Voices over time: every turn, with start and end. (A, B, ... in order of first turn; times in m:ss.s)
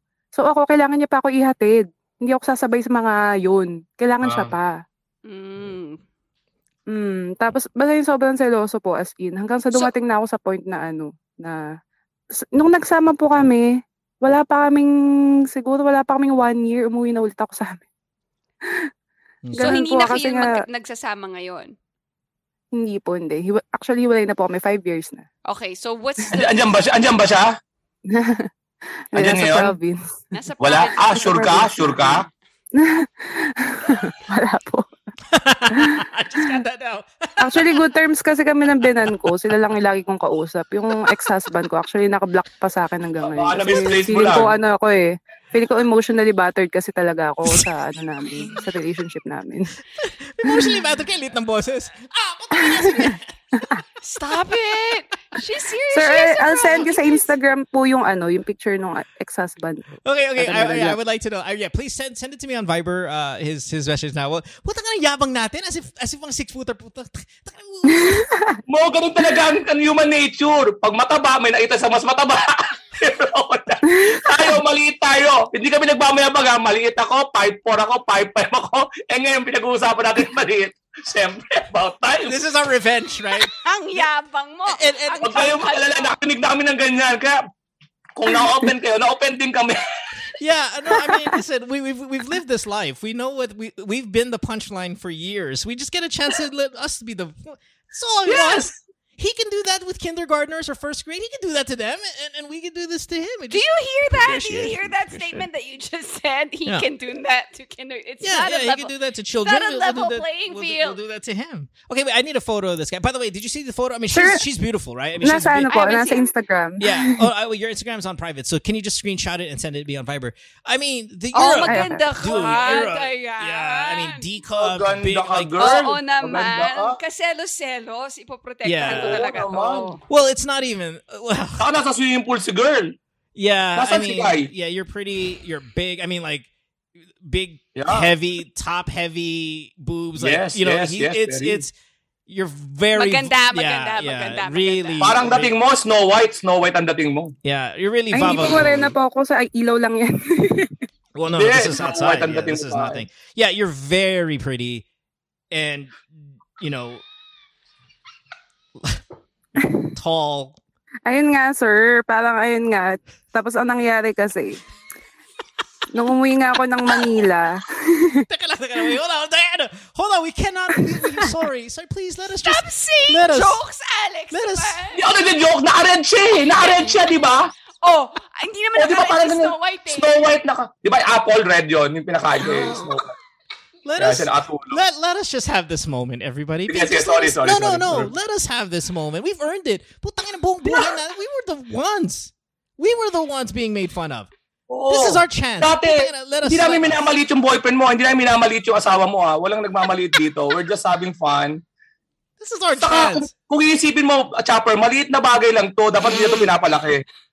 0:00.4-0:04.7 A
0:04.2-0:04.5 B
0:05.2-0:06.0 C
0:06.9-0:11.6 A
0:12.4-0:13.7 A
0:14.2-0:14.9 A
0:15.5-0:17.8 A
0:19.4-0:19.8 D
0:19.6-0:21.8 C
0:19.6-0:20.5 A
0:22.7-0:25.2 A
0:25.4-0:26.6 C
0:26.3-0:27.6 B
0:28.1-0:28.5 A
0:29.1-0:30.0 A
0:29.1-0:29.8 B
0:30.3-0:32.3 C
0:30.6-0:32.3 B
0:31.2-0:32.1 A
0:32.7-0:34.9 A
0:35.3-0:37.9 D
0:35.7-0:36.0 A
0:37.4-0:49.7 A
0:38.8-0:39.3 D
0:43.2-0:44.6 B
0:50.0-0:53.8 D
0:50.4-0:50.8 A
0:52.6-0:53.1 A
0:54.0-0:57.3 C
0:55.9-0:59.9 A
1:00.0-1:08.3 D
1:00.4-1:01.0 A
1:08.0-1:08.6 A
1:08.7-1:22.4 B
1:13.9-1:14.2 A
1:22.2-1:24.0 D
1:23.3-1:26.2 C
1:24.7-1:25.6 D
1:25.2-1:27.4 B
1:28.2-1:29.8 B
1:30.4-1:45.5 D
1:43.5-1:51.0 C
1:48.2-1:55.7 D
1:54.1-1:54.4 A
1:55.2-1:57.3 A
1:55.7-1:56.3 C
1:56.8-2:05.8 D
2:01.3-2:04.3 C
2:01.6-2:02.4 A
2:04.6-2:07.0 B
2:05.6-2:09.8 C
2:08.6-2:09.2 D
2:08.9-2:09.9 B
2:09.6-2:09.9 A
2:10.1-2:11.7 D
2:11.6-2:13.0 B
2:13.4-2:16.5 D
2:13.8-2:14.5 B
2:17.2-2:21.7 D
2:17.8-2:18.1 B
2:20.2-2:21.6 B
2:22.3-2:25.5 D
2:23.0-2:25.5 C
2:25.0-2:27.4 B
2:27.4-2:29.0 D
2:28.1-2:30.8 A
2:31.2-2:34.9 D
2:31.3-2:33.0 B
2:35.5-2:37.0 D
2:39.6-2:39.9 A
2:40.0-2:40.6 D
2:41.1-2:44.6 A
2:45.9-2:48.3 A
2:48.3-2:53.6 D
2:50.8-2:51.3 A
2:52.4-2:55.0 C
2:54.3-2:54.8 D
2:55.0-2:57.5 B
2:56.6-2:57.0 C
2:57.8-3:00.1 C
2:58.8-3:03.1 B
3:03.8-3:14.3 D
3:04.0-3:04.8 B
3:06.7-3:08.1 B
3:14.7-3:21.6 B
3:14.9-3:17.1 D
3:22.4-3:23.3 D
3:22.8-3:27.0 B